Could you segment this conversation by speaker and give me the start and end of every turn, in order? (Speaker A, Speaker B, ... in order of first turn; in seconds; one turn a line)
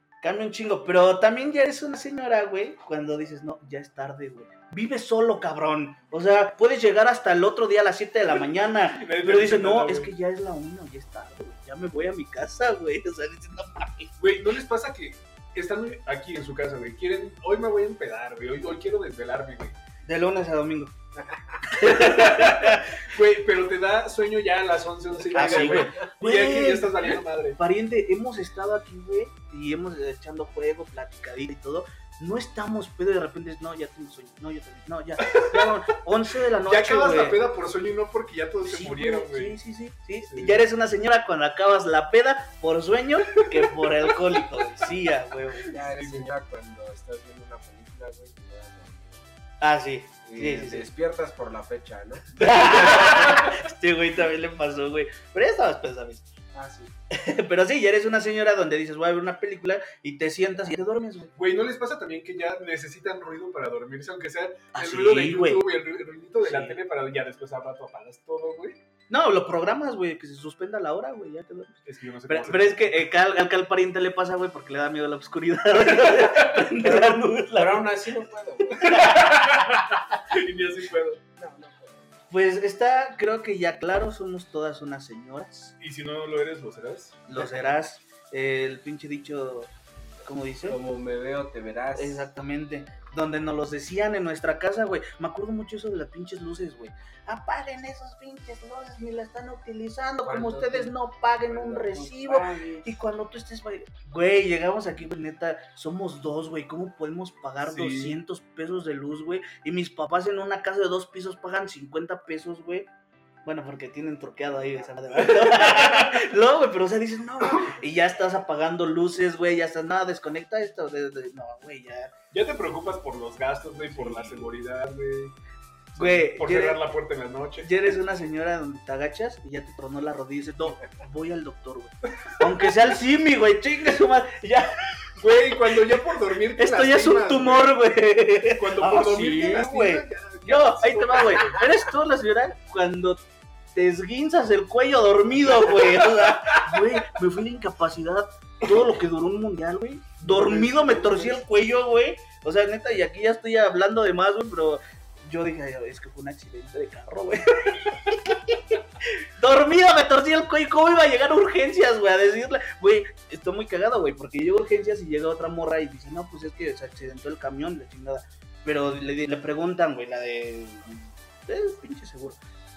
Speaker A: 0.2-14.1
Speaker B: 8.9-10.1
Speaker B: 14.2-19.8
Speaker A: 20.1-20.9
Speaker C: 21.3-21.6
Speaker A: 21.7-23.0
Speaker B: 21.8-27.6
Speaker A: 25.3-37.4
Speaker C: 25.3-26.0
Speaker B: 35.2-35.7
Speaker B: 36.5-39.6
Speaker A: 38.6-45.7
Speaker B: 40.2-40.6
Speaker C: 45.7-49.3
Speaker B: 45.9-46.3
Speaker A: 49.6-50.9
Speaker C: 50.2-53.3
Speaker A: 52.3-56.3
Speaker C: 56.5-56.9
Speaker A: 57.1-61.3
Speaker B: 61.4-68.8
Speaker A: 64.7-65.7
Speaker A: 66.4-66.8
Speaker A: 69.1-78.0
Speaker B: 71.8-73.0
Speaker C: 76.8-79.2
Speaker A: 78.7-79.2
Speaker B: 78.8-81.2
Speaker C: 81.4-82.0
Speaker A: 82.3-85.7
Speaker B: 85.8-87.2
Speaker A: 87.3-89.7
Speaker A: 90.2-90.8
Speaker C: 90.7-92.2
Speaker A: 91.9-112.9
Speaker C: 100.2-103.0
Speaker B: 107.6-108.2
Speaker A: 113.5-122.1
Speaker B: 115.3-116.0
Speaker B: 122.3-125.3
Speaker A: 123.9-124.5
Speaker B: 125.9-128.3
Speaker A: 126.0-126.8
Speaker A: 127.6-135.1
Speaker B: 135.2-137.8
Speaker A: 136.6-143.2
Speaker B: 138.6-141.7
Speaker A: 143.7-172.4
Speaker B: 145.6-146.8
Speaker B: 150.2-151.3